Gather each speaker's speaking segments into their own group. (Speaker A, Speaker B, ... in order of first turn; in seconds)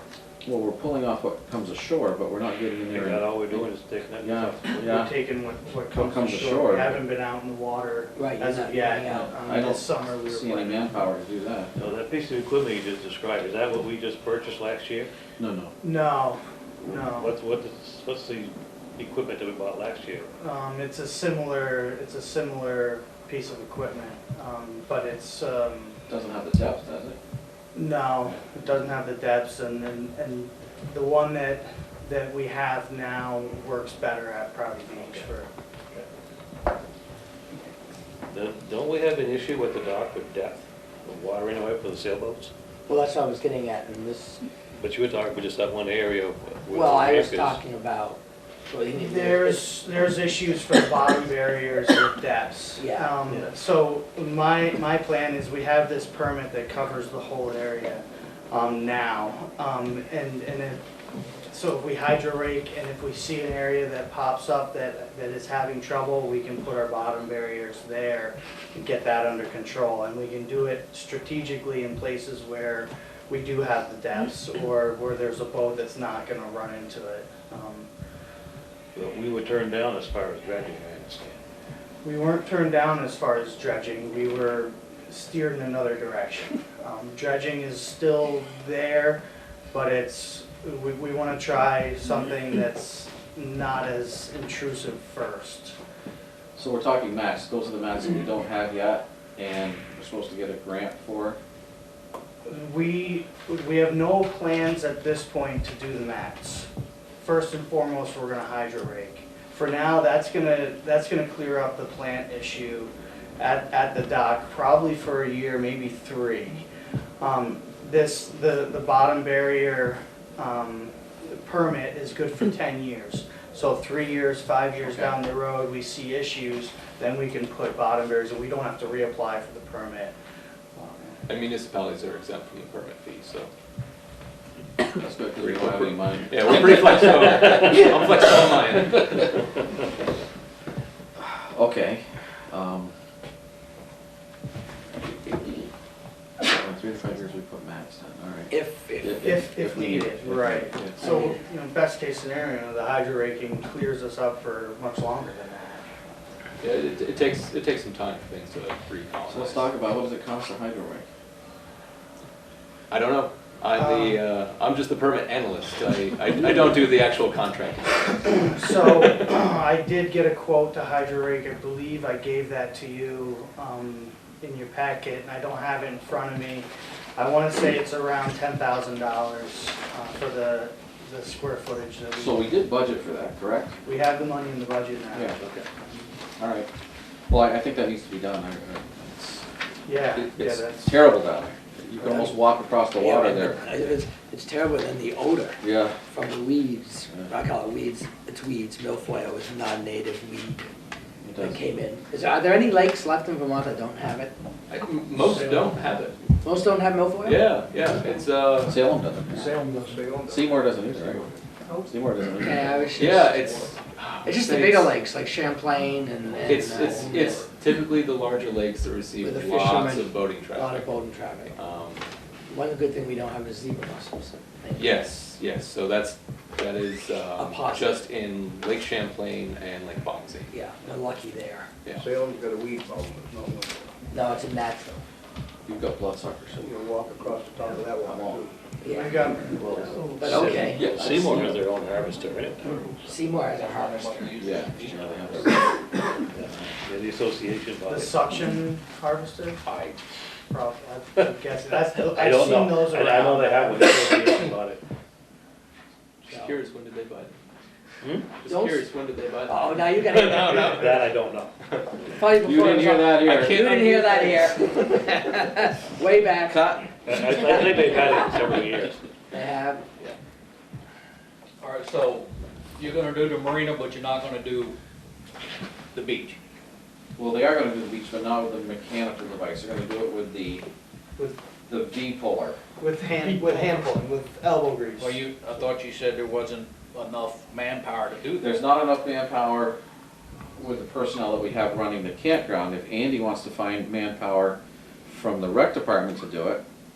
Speaker A: 0.4-3.6, 4.2-5.1, 5.9-7.0, 9.3-11.7, 15.4-15.7, 26.1-27.2, 96.6-101.4, 124.8-125.1, 135.0-136.6, 141.2-142.9, 146.4-151.0, 159.3-161.1, 182.2-183.8, 186.4-186.7, 187.3-189.4, 190.4-193.6, 195.6-196.0, 201.2-201.6, 208.6-209.6, 210.3-211.2, 211.9-212.8, 235.7-236.7, 238.1-238.4, 240.7-241.2, 244.4-245.7, 262.3-263.6, 277.2-280.6, 281.7-282.6, 288.4-289.8, 290.6-296.6
Speaker B: 2.9-4.8, 11.8-15.1, 16.8-20.3, 35.0-35.3, 38.3-42.5, 44.8-47.6, 53.3-53.5, 78.9-81.4, 239.6-242.9, 246.3-248.3, 249.7-250.0, 252.0-254.8, 258.0-258.3, 260.6-261.6, 267.1-269.0
Speaker C: 4.8-10.9, 15.8-17.3, 20.4-26.0, 27.7-35.5, 48.9-60.8, 61.5-77.9, 82.0-95.8, 102.5-106.7, 107.2-116.7, 117.2-130.2, 130.8-131.2, 149.2-155.8, 163.7-164.2, 168.2-182.5, 183.8-185.4, 189.9-190.9, 238.9-240.2, 247.9-249.7, 250.5-254.1, 282.8-285.1
Speaker D: 8.2-9.4, 42.9-44.4, 46.7-49.9, 52.8-53.2, 148.5-149.2, 151.0-151.3, 192.9-200.7, 201.4-204.3, 206.4-207.5, 212.4-213.2, 214.2-217.4, 219.2-221.6, 222.5-225.0, 227.4-228.0, 230.5-231.7, 234.1-235.0, 238.8-239.2, 240.1-241.6, 243.0-244.5, 256.3-256.6, 258.5-258.9, 259.5-261.1, 262.1-268.3, 269.3-269.8
Speaker E: 131.3-133.5, 135.4-139.4, 156.6-159.7, 162.9-168.2, 204.7-206.2, 207.2-208.8, 212.9-214.9, 216.4-220.9, 221.5-222.0, 224.8-230.5, 256.3-257.3, 258.4-261.0, 263.3-264.8
Speaker F: 205.3-205.7, 209.3-213.7, 216.4-217.3, 232.0-234.0, 236.6-240.1, 242.7-243.5, 244.0-244.4
Speaker G: 243.6-245.4, 271.6-274.8, 275.9-276.4, 283.2-283.8, 285.0-288.5